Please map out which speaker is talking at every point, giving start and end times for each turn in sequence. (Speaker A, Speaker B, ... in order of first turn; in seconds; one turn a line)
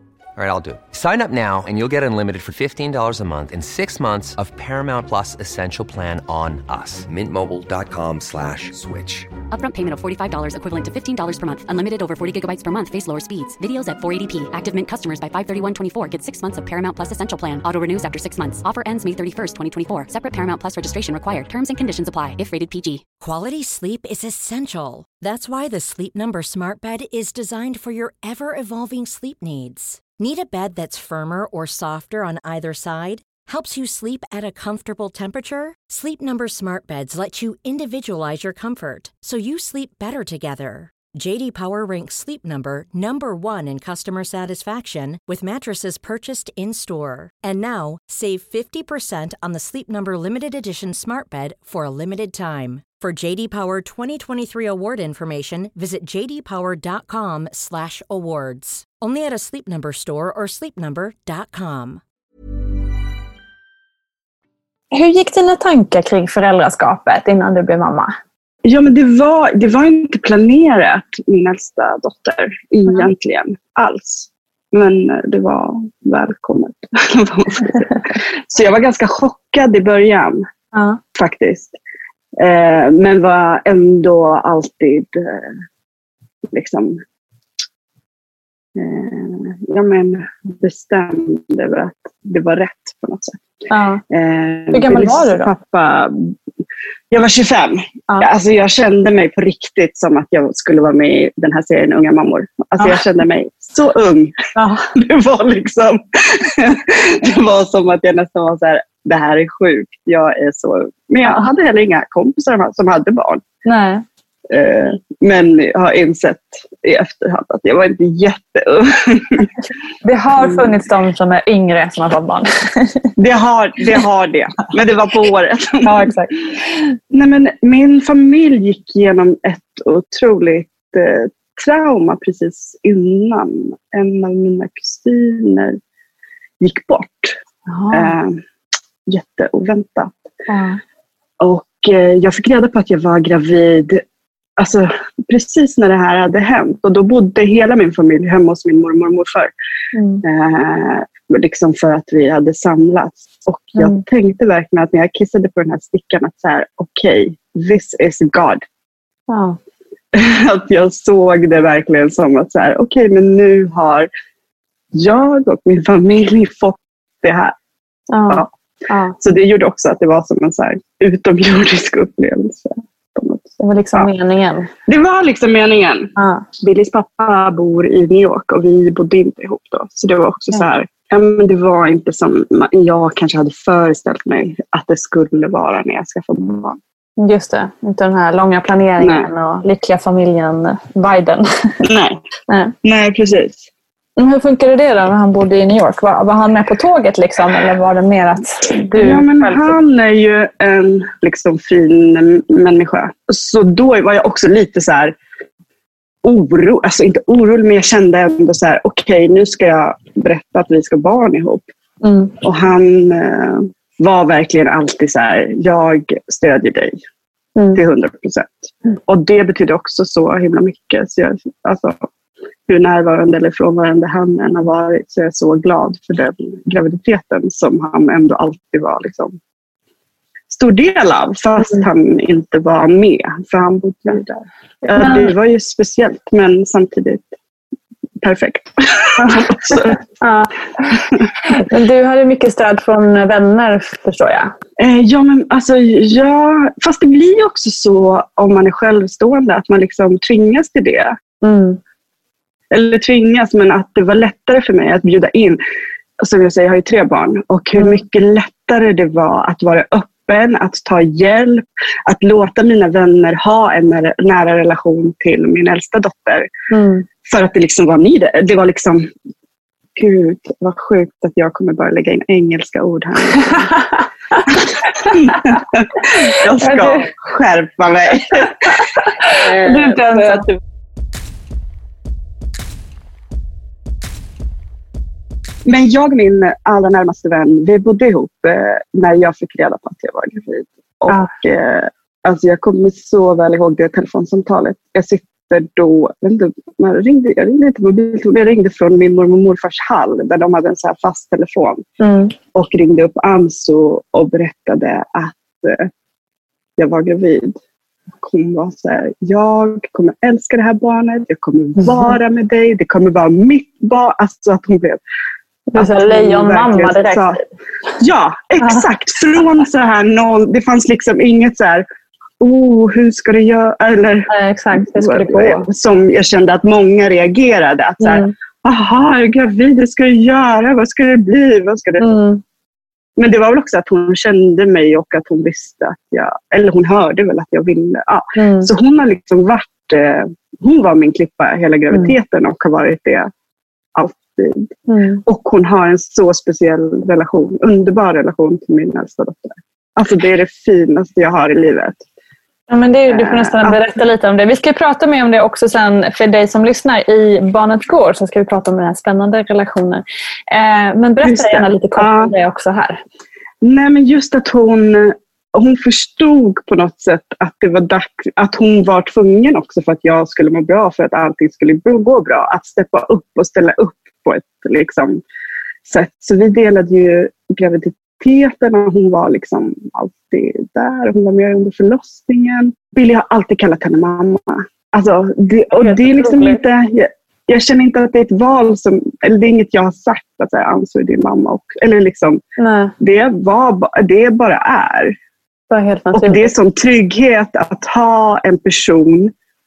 Speaker A: 0.3-9.3
Speaker B: 9.5-23.1
Speaker C: 23.2-62.0
Speaker D: 64.9-68.1
Speaker E: 68.6-80.4
Speaker D: 80.7-81.0
Speaker E: 81.1-81.7
Speaker E: 82.4-85.5
Speaker E: 86.5-87.0
Speaker E: 88.7-93.4
Speaker D: 93.7-94.0
Speaker E: 94.1-96.3
Speaker D: 94.7-95.5
Speaker E: 97.1-104.3
Speaker D: 104.5-104.9
Speaker E: 105.0-113.4
Speaker D: 113.6-114.0
Speaker E: 114.5-119.5
Speaker D: 120.0-123.1
Speaker E: 120.3-120.7
Speaker E: 123.2-126.1
Speaker D: 125.8-127.0
Speaker E: 127.1-135.8
Speaker E: 136.6-137.4
Speaker D: 137.7-138.1
Speaker E: 137.9-138.4
Speaker E: 139.1-140.2
Speaker D: 140.5-140.8
Speaker E: 141.4-144.0
Speaker E: 144.6-149.5
Speaker D: 149.9-150.2
Speaker E: 150.2-158.6
Speaker D: 153.8-154.0
Speaker D: 159.3-159.6
Speaker E: 160.1-164.1
Speaker E: 164.9-167.5
Speaker D: 168.1-169.1
Speaker E: 169.2-174.1
Speaker D: 173.6-174.7
Speaker E: 174.9-186.8
Speaker D: 176.2-176.4
Speaker D: 187.2-191.7
Speaker E: 189.0-189.3
Speaker E: 191.8-192.2
Speaker D: 192.5-192.7
Speaker E: 192.8-193.7
Speaker D: 194.2-199.8
Speaker E: 198.9-205.2
Speaker E: 206.2-211.7
Speaker D: 212.0-212.3
Speaker E: 212.4-217.0
Speaker D: 217.6-217.8
Speaker E: 217.7-222.1
Speaker E: 222.7-229.4
Speaker E: 230.5-237.3
Speaker D: 234.9-235.3
Speaker E: 238.2-240.0
Speaker D: 239.2-244.5
Speaker E: 244.8-251.1
Speaker D: 251.4-251.8
Speaker E: 252.7-255.6
Speaker E: 256.2-266.5
Speaker D: 266.7-267.1
Speaker E: 267.2-269.1
Speaker E: 269.9-273.7
Speaker D: 273.5-274.0
Speaker E: 274.5-278.6
Speaker D: 275.0-277.1
Speaker D: 278.4-280.4
Speaker E: 279.2-280.6
Speaker E: 285.6-301.8
Speaker D: 302.0-302.3
Speaker E: 302.5-305.9
Speaker E: 306.8-307.6
Speaker E: 308.1-315.0
Speaker D: 311.8-312.1
Speaker D: 315.7-317.4
Speaker E: 315.7-317.4
Speaker E: 318.0-321.9
Speaker D: 318.6-318.8
Speaker E: 322.4-332.1
Speaker D: 324.3-325.6
Speaker D: 328.0-328.3
Speaker D: 332.0-332.4
Speaker E: 333.2-343.3
Speaker D: 338.4-338.7
Speaker E: 343.9-344.7
Speaker D: 344.9-345.2
Speaker E: 345.2-352.0
Speaker D: 352.7-363.0
Speaker E: 353.1-353.8
Speaker E: 361.2-362.3
Speaker E: 363.6-375.2
Speaker E: 375.9-392.4
Speaker D: 385.7-386.6
Speaker D: 392.6-392.9
Speaker E: 393.0-395.1
Speaker D: 395.7-396.4
Speaker E: 396.1-399.3